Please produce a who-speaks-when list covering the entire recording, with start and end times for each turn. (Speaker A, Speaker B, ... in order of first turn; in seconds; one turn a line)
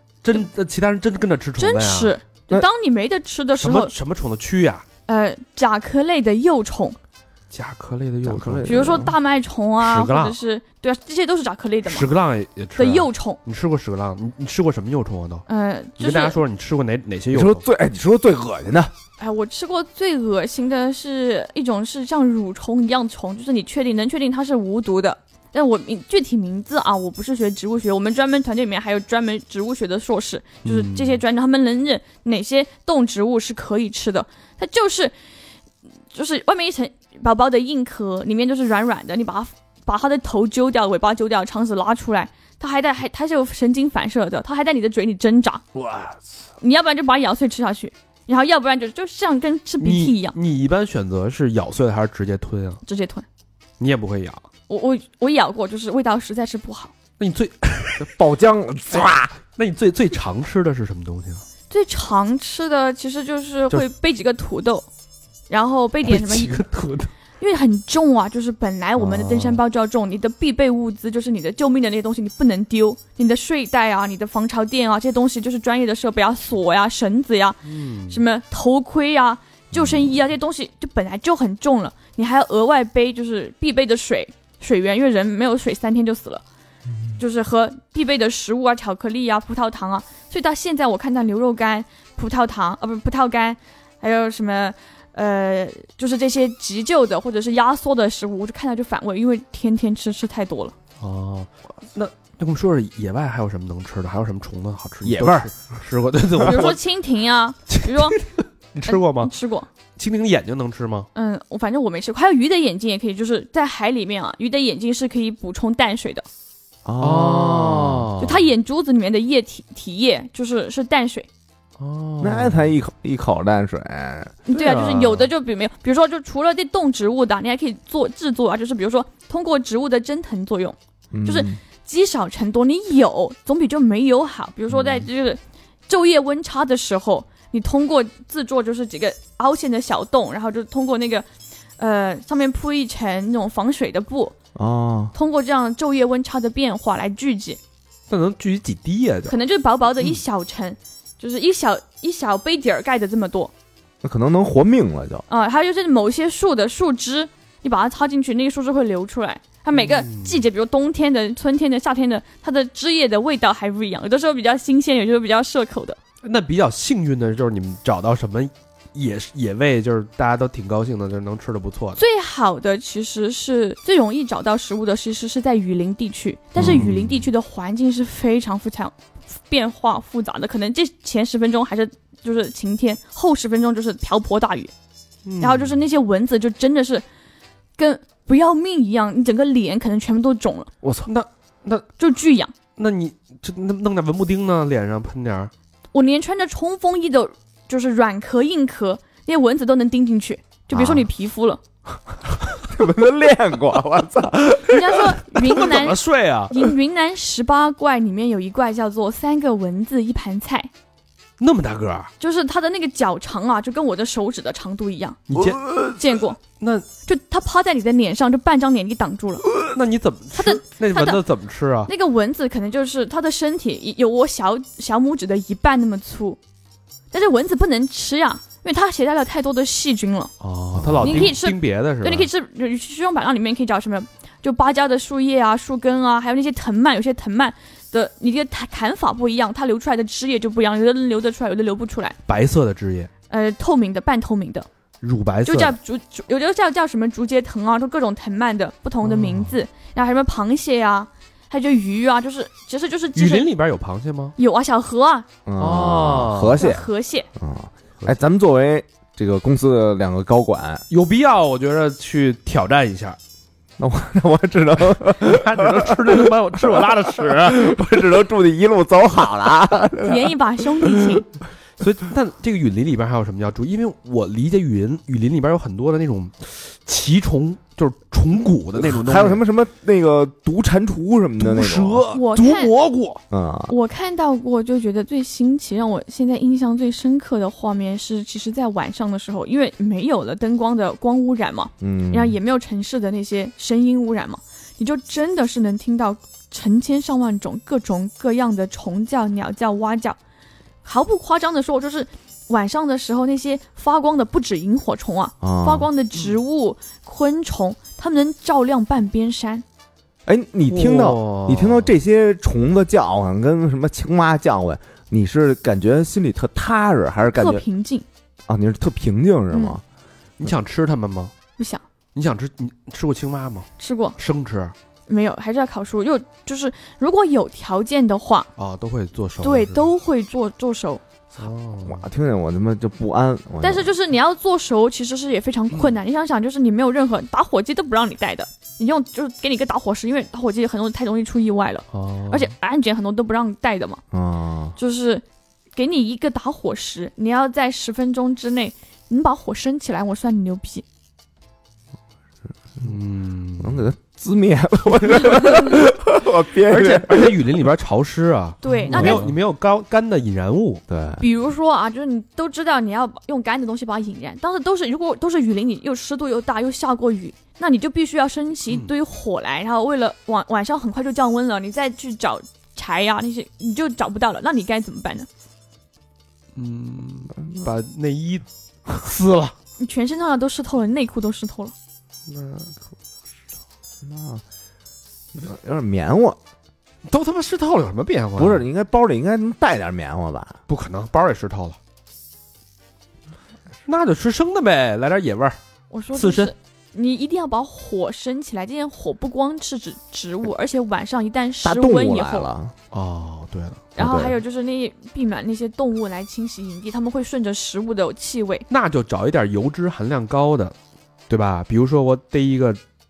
Speaker A: 0.2-2.1
Speaker B: 1.6-3.9
Speaker A: 3.6-4.8
Speaker B: 5.1-7.0
Speaker A: 7.5-8.9
Speaker C: 8.2-9.1
Speaker B: 8.6-12.1
Speaker A: 9.8-10.3
Speaker A: 11.8-15.4
Speaker B: 12.8-13.4
Speaker B: 15.5-16.4
Speaker A: 16.0-17.6
Speaker C: 17.3-18.9
Speaker B: 19.2-35.1
Speaker A: 30.6-31.2
Speaker B: 36.1-45.6
Speaker A: 45.8-46.0
Speaker B: 46.6-50.4
Speaker A: 49.8-52.8
Speaker B: 52.8-53.2
Speaker A: 53.8-54.4
Speaker B: 54.7-56.9
Speaker A: 57.2-58.1
Speaker C: 58.0-59.4
Speaker A: 59.0-61.4
Speaker B: 61.7-64.9
Speaker B: 65.5-66.6
Speaker A: 66.0-67.1
Speaker B: 67.4-86.4
Speaker A: 69.1-69.5
Speaker A: 77.7-78.2
Speaker B: 87.2-100.7
Speaker A: 101.0-106.8
Speaker C: 105.0-105.5
Speaker B: 106.4-108.2
Speaker A: 107.7-109.3
Speaker B: 108.8-109.7
Speaker A: 110.0-111.1
Speaker B: 111.1-116.2
Speaker C: 116.8-118.1
Speaker A: 117.0-118.4
Speaker B: 118.2-121.3
Speaker A: 121.8-122.7
Speaker C: 122.2-124.4
Speaker B: 124.5-141.3
Speaker A: 124.5-125.3
Speaker C: 131.1-131.6
Speaker B: 141.8-144.3
Speaker C: 144.5-145.1
Speaker B: 145.1-147.6
Speaker A: 148.1-149.3
Speaker B: 149.3-153.5
Speaker C: 154.0-155.2
Speaker B: 155.3-166.0
Speaker A: 159.8-160.4
Speaker A: 166.2-172.0
Speaker B: 171.9-184.7
Speaker C: 176.6-176.9
Speaker A: 176.6-177.2
Speaker A: 185.2-185.7
Speaker B: 185.4-187.0
Speaker B: 187.8-190.7
Speaker C: 190.8-191.1
Speaker A: 191.0-191.9
Speaker B: 192.0-192.5
Speaker A: 192.8-195.5
Speaker B: 195.9-201.6
Speaker C: 200.7-201.1
Speaker C: 202.6-205.2
Speaker B: 204.7-210.7
Speaker A: 205.5-206.6
Speaker A: 211.4-212.1
Speaker B: 212.2-215.2
Speaker A: 215.3-215.7
Speaker B: 215.9-216.4
Speaker A: 216.6-216.8
Speaker B: 217.0-219.4
Speaker A: 219.6-221.9
Speaker B: 220.3-221.2
Speaker B: 221.8-226.4
Speaker B: 227.1-230.3
Speaker A: 230.4-232.3
Speaker C: 230.7-231.4
Speaker B: 231.0-242.2
Speaker A: 242.3-243.1
Speaker B: 243.3-244.7
Speaker A: 245.0-245.7
Speaker B: 245.4-253.5
Speaker A: 253.1-254.3
Speaker B: 254.4-255.3
Speaker C: 255.4-260.8
Speaker A: 255.6-256.6
Speaker B: 256.6-257.3
Speaker A: 260.9-263.2
Speaker C: 263.8-271.2
Speaker A: 265.2-267.8
Speaker B: 270.0-271.2
Speaker A: 271.8-279.4
Speaker C: 278.8-282.0
Speaker A: 281.4-283.2
Speaker B: 282.1-282.7
Speaker C: 283.3-283.7
Speaker B: 283.7-300.2
Speaker C: 291.8-292.4
Speaker B: 300.8-309.6
Speaker C: 305.4-305.9
Speaker C: 310.3-317.6
Speaker A: 310.7-311.9
Speaker B: 317.3-318.1
Speaker C: 318.5-319.8
Speaker B: 319.5-319.8
Speaker A: 320.4-321.3
Speaker B: 321.6-321.8
Speaker A: 322.1-324.7
Speaker B: 323.8-324.1
Speaker B: 325.1-328.5
Speaker A: 328.6-329.9
Speaker B: 329.4-331.0
Speaker A: 331.4-332.0
Speaker C: 331.9-333.9
Speaker B: 333.6-344.0
Speaker A: 341.9-342.5
Speaker C: 344.1-344.7
Speaker B: 344.8-345.2
Speaker B: 345.7-350.8
Speaker A: 352.8-353.9
Speaker C: 353.6-357.4
Speaker A: 356.6-360.8
Speaker B: 358.6-359.2
Speaker C: 358.7-359.3
Speaker C: 360.9-361.2
Speaker B: 361.2-375.3
Speaker A: 376.5-379.5
Speaker B: 379.8-381.7
Speaker A: 382.3-382.7
Speaker C: 384.0-384.4
Speaker C: 385.3-386.4
Speaker A: 387.1-388.6
Speaker C: 388.4-390.6
Speaker A: 390.7-391.8
Speaker A: 393.9-395.6
Speaker B: 395.9-402.5
Speaker A: 396.1-396.5
Speaker C: 401.6-402.7
Speaker A: 402.9-403.8
Speaker B: 403.9-408.6
Speaker C: 404.0-404.4
Speaker A: 408.7-410.7
Speaker A: 411.3-412.8